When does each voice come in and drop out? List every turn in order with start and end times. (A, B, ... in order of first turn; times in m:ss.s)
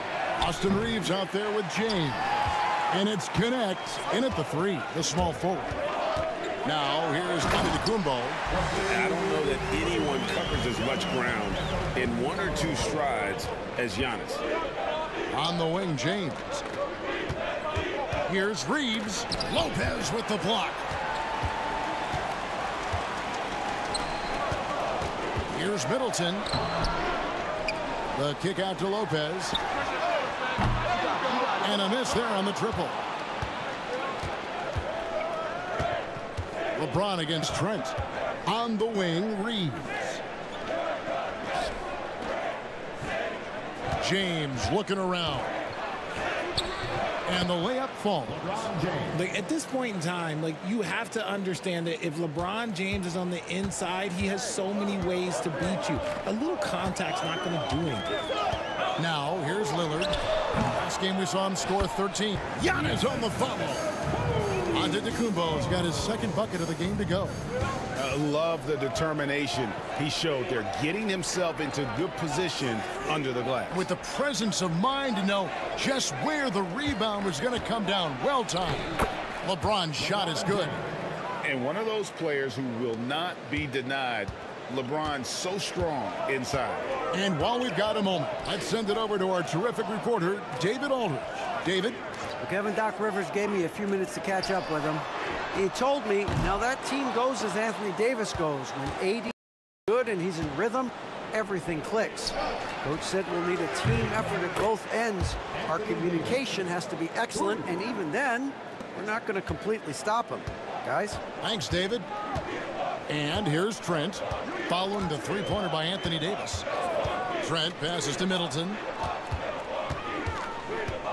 0:00.4-0:02.3 A
0:02.9-0:05.7 A
0:06.6-0:08.4 A
0:08.8-0:14.4 B
0:15.3-0:16.6 A
0:18.3-0:20.8 A
0:25.5-0:26.5 A
0:28.1-0:29.6 A
0:31.6-0:33.0 A
0:36.8-0:38.0 A
0:38.5-0:40.2 A
0:44.0-0:45.5 A
0:47.3-0:49.1 A
0:49.1-0:58.1 C
0:59.0-1:00.2 A
1:00.7-1:03.9 A
1:04.7-1:07.4 A
1:08.0-1:13.9 B
1:13.7-1:20.8 A
1:21.4-1:26.9 B
1:27.1-1:32.0 A
1:32.4-1:51.2 D
1:51.4-1:52.1 A
1:53.1-1:56.7 A
1:57.4-1:58.8 A